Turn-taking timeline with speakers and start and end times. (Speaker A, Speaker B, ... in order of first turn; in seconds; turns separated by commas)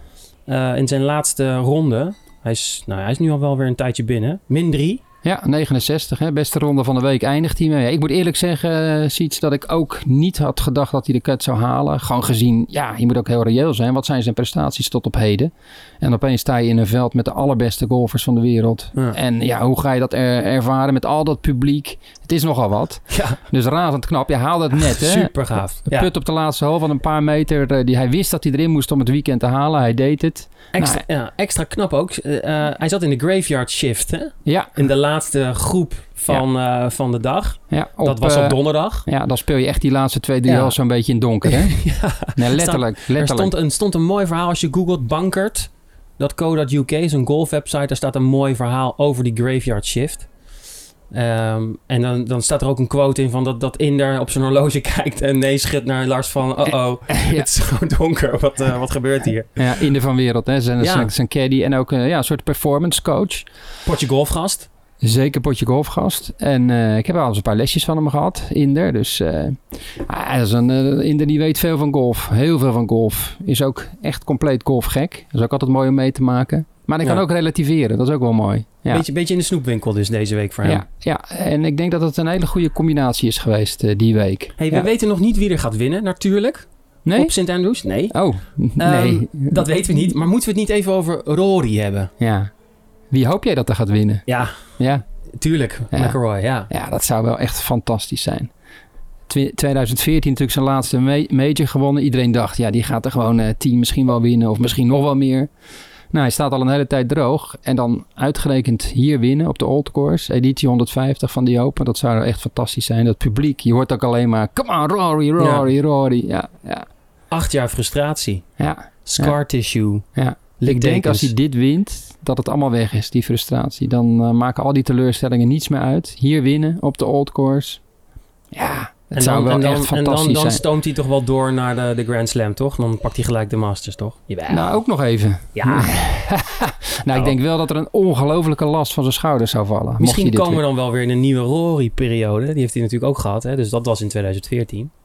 Speaker A: 0.5-5.0, Speaker B: 5.2-31.0, Speaker A: 23.1-23.4, Speaker A: 24.7-26.1, Speaker A: 30.7-39.1, Speaker B: 34.5-34.7, Speaker B: 37.7-43.5, Speaker A: 40.5-40.8, Speaker A: 41.4-50.3, Speaker A: 51.1-59.6, Speaker B: 57.1-57.5, Speaker B: 59.6-63.5, Speaker A: 60.8-61.1, Speaker A: 63.9-64.7, Speaker B: 65.0-79.0, Speaker A: 78.9-80.8, Speaker B: 80.6-84.9, Speaker A: 84.6-88.2, Speaker B: 87.1-87.3, Speaker B: 88.1-89.7, Speaker A: 88.8-92.1, Speaker B: 92.2-92.5, Speaker B: 93.1-95.0, Speaker A: 94.3-94.6, Speaker A: 95.3-96.7, Speaker B: 95.9-96.2, Speaker B: 96.7-98.5, Speaker B: 99.3-105.5, Speaker B: 106.1-116.9, Speaker A: 115.4-115.7, Speaker A: 117.3-118.5, Speaker B: 118.6-119.4, Speaker A: 119.0-120.0, Speaker B: 120.2-127.8, Speaker A: 120.6-121.3, Speaker B: 128.5-130.6, Speaker A: 129.1-134.8, Speaker B: 134.5-140.6, Speaker A: 135.6-136.0, Speaker A: 140.0-144.9